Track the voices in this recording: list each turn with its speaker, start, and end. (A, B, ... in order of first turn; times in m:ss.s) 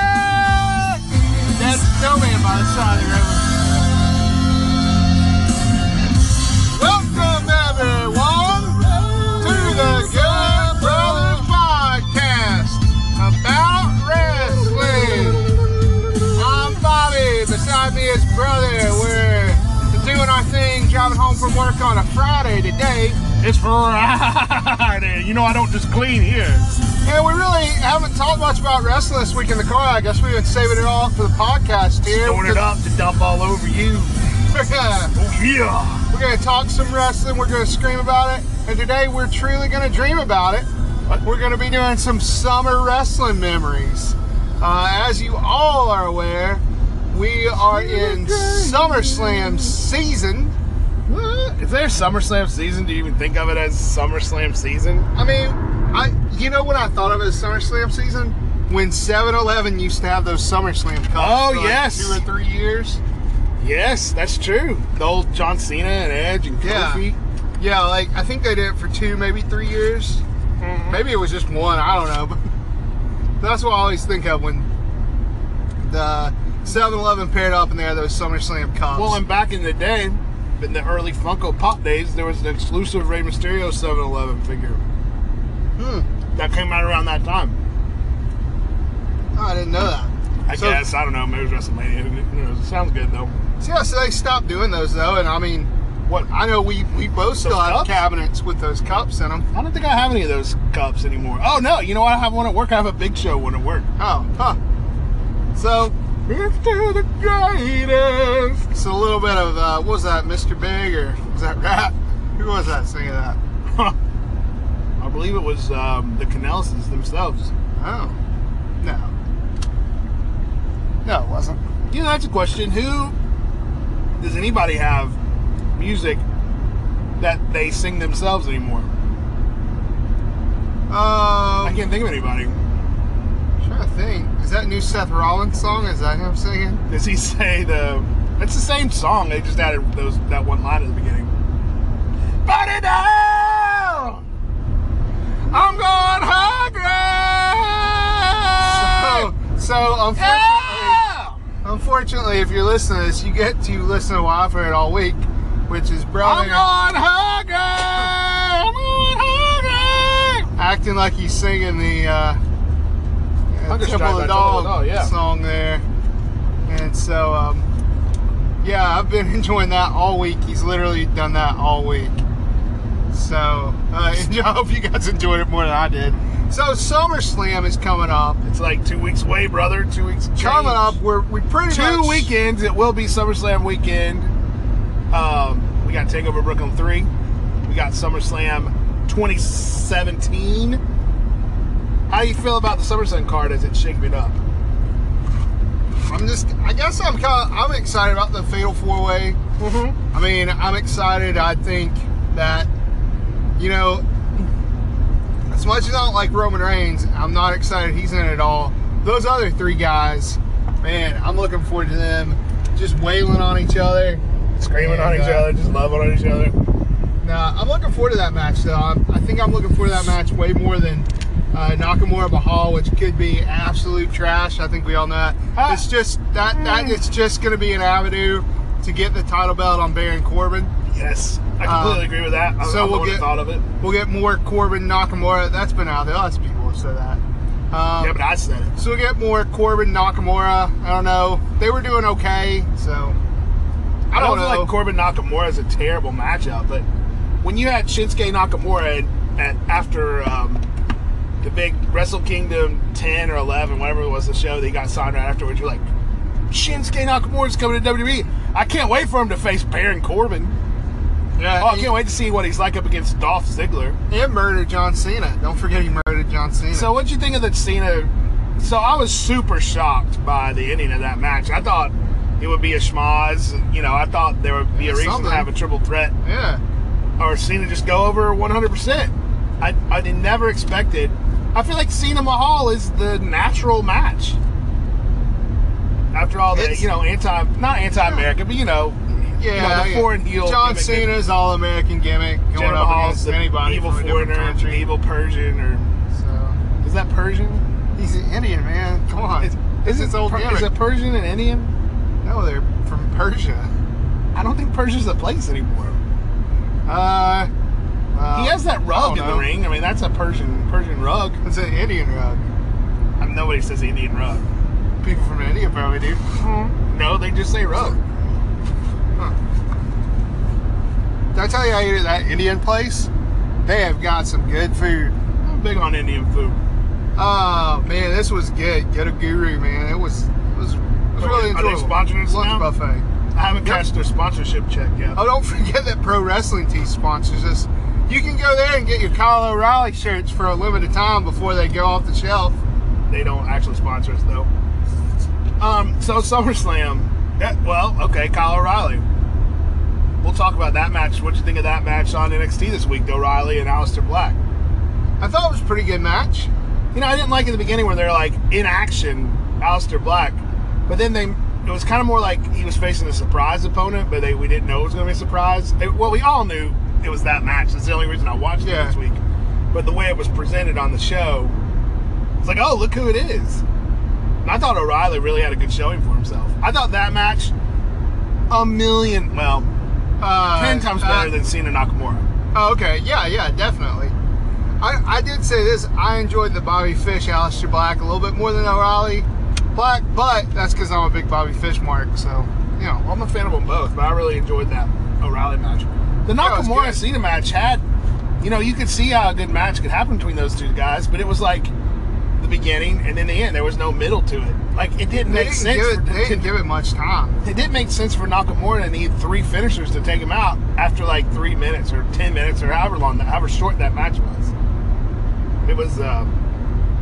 0:01.5-0:03.8 A
0:06.6-0:15.5 A
0:09.1-0:09.7 B
0:16.4-0:23.2 A
0:23.4-0:26.7 B
0:27.0-0:32.7 A
0:32.1-0:34.2 B
0:34.4-0:35.2 A
0:35.2-0:36.1 B
0:36.1-0:40.7 A
0:41.2-0:50.6 A
0:47.7-0:49.8 B
0:51.1-0:55.1 B
0:55.2-1:03.0 A
1:01.2-1:02.2 B
1:03.6-1:07.2 B
1:06.6-1:07.0 A
1:07.6-1:10.2 A
1:10.6-1:11.0 B
1:10.9-1:12.5 A
1:13.4-1:14.7 A
1:15.8-1:19.2 A
1:18.9-1:24.8 B
1:25.8-1:26.1 A
1:26.4-1:27.6 B
1:29.3-1:30.8 A
1:30.5-1:33.3 B
1:33.6-1:35.7 A
1:36.3-1:39.5 A
1:37.4-1:38.0 B
1:39.5-1:43.9 B
1:44.0-1:44.6 A
1:45.6-1:46.0 A
1:46.3-1:48.6 B
1:48.7-1:53.4 A
1:53.7-1:54.0 B
1:55.0-1:57.5 B
1:57.8-1:58.2 A
1:58.8-1:59.1 A
2:01.0-2:01.6 A
2:01.9-2:03.2 B
2:04.2-2:05.2 B
2:05.8-2:06.2 B
2:07.2-2:08.9 B
2:10.9-2:11.8 A
2:11.6-2:12.6 B
2:13.6-2:16.8 A
2:16.9-2:21.3 B
2:22.4-2:24.2 B
2:25.5-2:29.3 B
2:25.5-2:26.2 A
2:28.6-2:31.0 A
2:30.2-2:31.4 B
2:31.6-2:36.6 A
2:36.2-2:40.5 B
2:40.6-2:42.4 A
2:43.5-2:45.8 A
2:43.7-2:45.1 B
2:46.7-2:47.7 A
2:48.6-2:52.2 A
2:53.1-2:58.4 A
2:58.4-3:01.0 B
3:00.4-3:02.3 A
3:01.7-3:04.3 B
3:05.1-3:07.1 B
3:07.7-3:10.8 B
3:12.1-3:14.4 B
3:16.0-3:19.4 A
3:19.6-3:20.0 B
3:20.1-3:22.7 A
3:23.6-3:24.5 A
3:25.5-3:34.2 A
3:34.6-3:36.6 B
3:34.8-3:35.5 A
3:37.2-3:50.7 A
3:45.6-3:45.9 B
3:46.5-3:47.0 B
3:50.9-3:53.6 B
3:51.6-3:53.3 A
3:53.8-3:58.2 A
3:58.0-3:58.8 B
3:58.8-4:03.2 A
4:04.1-4:06.9 B
4:04.1-4:04.7 A
4:07.4-4:10.6 B
4:11.4-4:15.9 B
4:16.5-4:20.6 B
4:21.4-4:21.9 A
4:21.6-4:24.0 B
4:24.1-4:26.9 A
4:26.7-4:36.1 B
4:34.7-4:35.5 A
4:36.2-4:36.6 A
4:37.2-4:44.4 B
4:46.1-4:51.2 B
4:46.5-4:46.9 A
4:48.0-4:48.3 A
4:49.4-4:54.8 A
4:52.5-4:55.9 B
4:56.1-4:56.6 A
4:56.8-4:57.7 B
4:58.0-5:00.7 A
4:59.4-5:01.7 B
5:02.2-5:03.7 A
5:04.4-5:06.0 B
5:06.9-5:07.5 A
5:08.1-5:09.5 A
5:08.3-5:11.4 B
5:11.4-5:12.4 A
5:13.2-5:14.4 B
5:15.0-5:16.2 A
5:16.4-5:18.0 B
5:21.3-5:23.1 A
5:23.6-5:25.2 A
5:25.4-5:26.6 B
5:27.2-5:33.1 A
5:31.2-5:32.7 B
5:33.3-5:35.2 B
5:35.2-5:42.6 A
5:43.1-5:44.5 B
5:45.6-5:49.0 B
5:50.2-5:54.4 B
5:55.2-5:56.5 A
5:56.9-6:09.2 B
6:08.6-6:09.0 A
6:09.7-6:11.6 B
6:12.4-6:13.6 B
6:14.4-6:17.5 B
6:18.5-6:19.7 B
6:20.2-6:21.3 A
6:20.5-6:22.3 B
6:22.5-6:24.2 A
6:24.8-6:33.0 A
6:33.0-6:37.8 B
6:36.4-6:37.0 A
6:38.4-6:41.7 B
6:42.4-6:46.5 B
6:45.2-6:47.4 A
6:47.4-6:54.5 B
6:55.6-6:56.3 B